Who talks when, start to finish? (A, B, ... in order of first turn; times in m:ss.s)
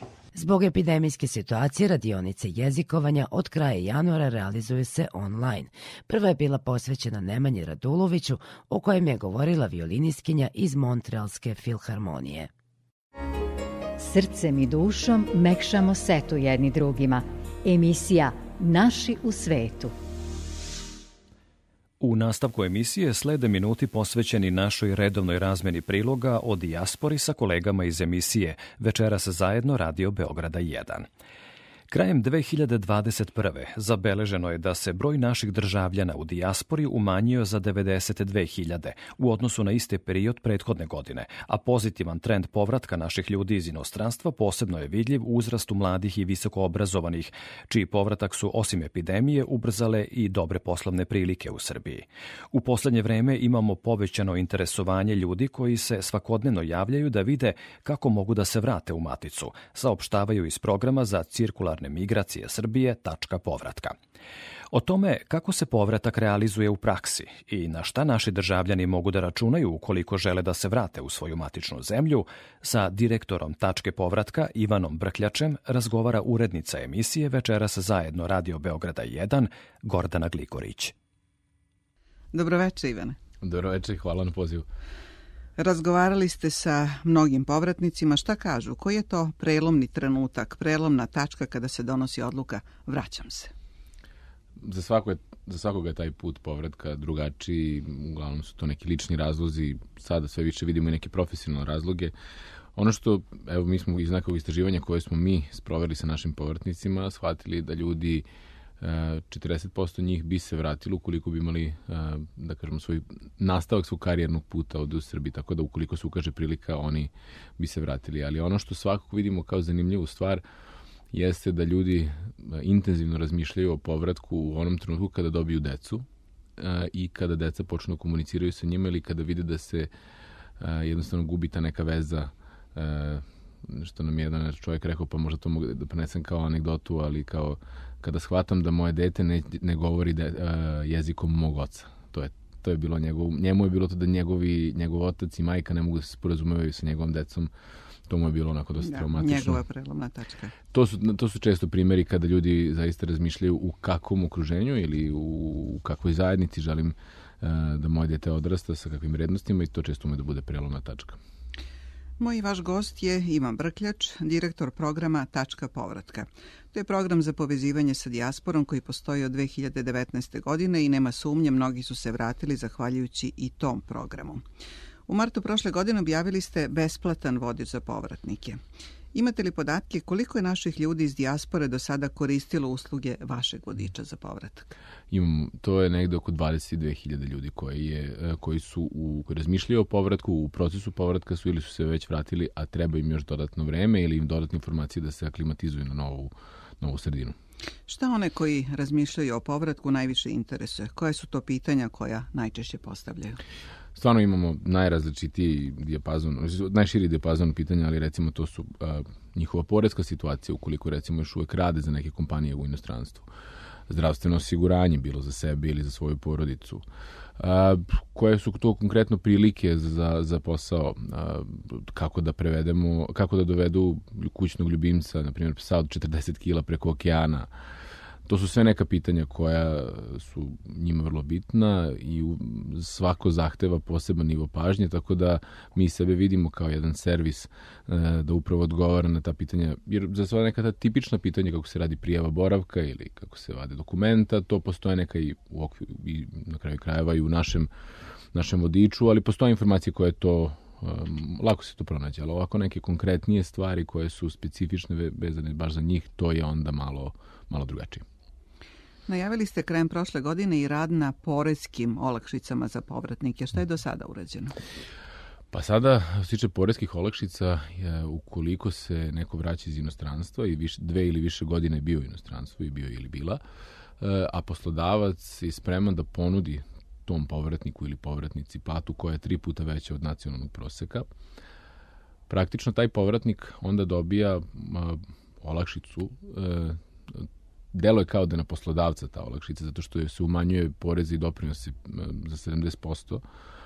0:00.4-0:12.5 A
0:14.0-0:20.0 B
0:22.0-0:31.1 C
0:31.9-1:04.0 C
1:04.7-1:20.9 C
1:22.3-1:23.2 D
1:23.4-1:24.7 E
1:25.6-1:33.5 D
1:34.6-1:42.1 E
1:42.8-1:48.2 E
1:48.8-2:00.4 E
2:01.1-2:06.1 E
2:06.6-2:09.9 E
2:10.6-2:27.5 E
2:28.1-2:29.6 E
2:28.8-2:30.5 D
2:30.7-2:41.2 E
2:42.2-2:54.4 D
2:55.1-2:58.6 D
2:59.1-3:04.8 D
3:05.1-3:17.4 E
3:17.9-3:23.4 D
3:24.0-3:33.3 E
3:33.9-3:36.8 E
3:37.4-3:47.5 E
3:48.3-4:07.7 E
4:08.3-4:18.0 E
4:19.1-4:24.6 D
4:25.5-4:33.4 E
4:34.0-4:41.1 E
4:42.3-4:53.2 E